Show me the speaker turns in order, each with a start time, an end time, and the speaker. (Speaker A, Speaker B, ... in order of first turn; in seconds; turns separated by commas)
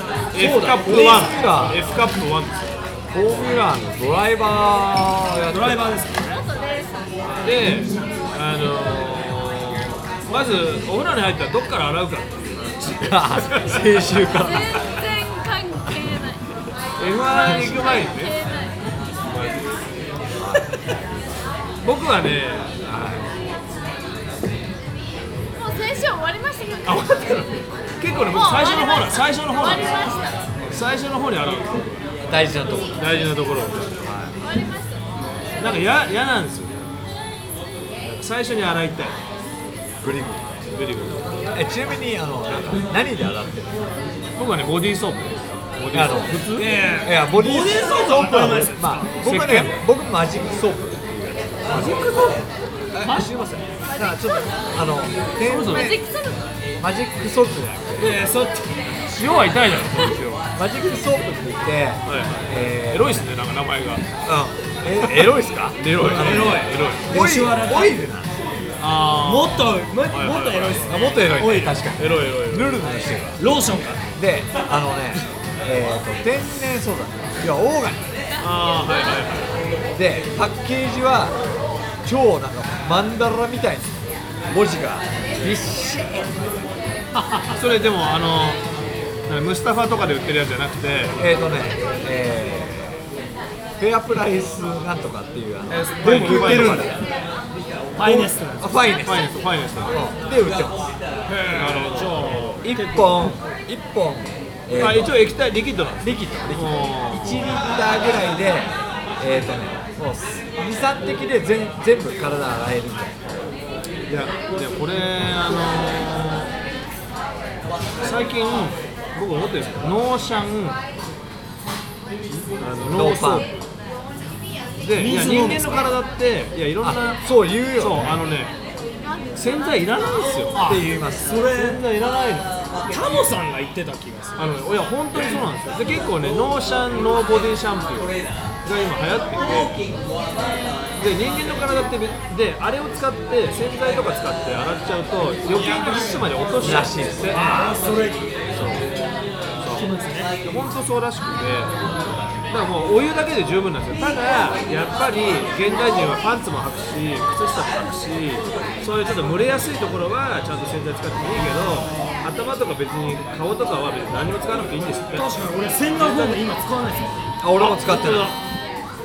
Speaker A: 0.3-1.8, Speaker B: 0.3-2.7, Speaker A: 3.1-5.8, Speaker C: 5.5-6.5, Speaker D: 6.5-7.1, Speaker B: 7.4-14.2, Speaker A: 13.0-15.0, Speaker D: 14.4-16.5, Speaker B: 17.0-18.4, Speaker D: 17.2-18.9, Speaker B: 19.3-19.6, Speaker B: 21.8-22.7, Speaker A: 22.9-23.3, Speaker D: 25.6-27.1, Speaker B: 26.8-31.9, Speaker D: 28.3-30.4, Speaker A: 32.2-33.3, Speaker B: 33.0-34.0, Speaker A: 34.0-34.4, Speaker D: 34.4-35.1, Speaker B: 35.6-36.8, Speaker B: 38.0-39.1, Speaker A: 40.0-40.6, Speaker B: 40.7-41.3, Speaker A: 41.5-43.9, Speaker B: 44.4-46.7, Speaker A: 45.9-46.4, Speaker C: 46.6-49.7, Speaker A: 47.0-52.0, Speaker B: 51.7-52.4, Speaker A: 52.9-56.0, Speaker B: 55.5-55.9, Speaker D: 55.7-56.4, Speaker A: 56.8-58.2, Speaker C: 58.0-58.9, Speaker B: 59.1-60.4, Speaker A: 60.6-63.3, Speaker B: 62.1-64.0, Speaker A: 64.2-68.3, Speaker B: 65.0-67.1, Speaker C: 66.0-68.1, Speaker B: 68.8-71.0, Speaker C: 69.1-71.8, Speaker A: 70.8-73.4, Speaker B: 72.0-72.8, Speaker C: 73.4-74.0, Speaker A: 74.2-78.1, Speaker B: 78.4-79.6, Speaker A: 79.9-81.3, Speaker A: 82.0-86.5, Speaker B: 87.5-88.6, Speaker B: 89.3-91.2, Speaker A: 91.2-93.0, Speaker A: 93.8-97.0, Speaker B: 95.7-97.0, Speaker C: 96.0-97.0, Speaker C: 98.0-98.8, Speaker A: 98.0-99.3, Speaker B: 99.0-100.0, Speaker A: 99.9-100.9, Speaker C: 101.3-103.0, Speaker B: 101.3-103.0, Speaker A: 102.6-105.3, Speaker B: 104.7-107.5, Speaker A: 106.0-113.3, Speaker B: 114.1-116.5, Speaker B: 118.0-120.8, Speaker B: 122.6-123.5, Speaker A: 122.9-123.5, Speaker B: 124.8-127.2, Speaker C: 124.9-125.9, Speaker A: 126.8-128.2, Speaker B: 127.7-128.5, Speaker B: 129.3-130.7, Speaker C: 130.5-130.9, Speaker A: 130.5-131.8, Speaker B: 131.3-132.5, Speaker C: 132.9-134.4, Speaker B: 134.4-139.9, Speaker B: 141.0-147.6, Speaker A: 146.6-147.3, Speaker C: 147.3-148.2, Speaker B: 148.5-148.8, Speaker C: 149.7-150.3, Speaker B: 150.4-151.7, Speaker B: 152.5-165.3, Speaker C: 165.1-167.2, Speaker B: 165.9-166.4, Speaker A: 167.4-168.3, Speaker B: 167.6-168.3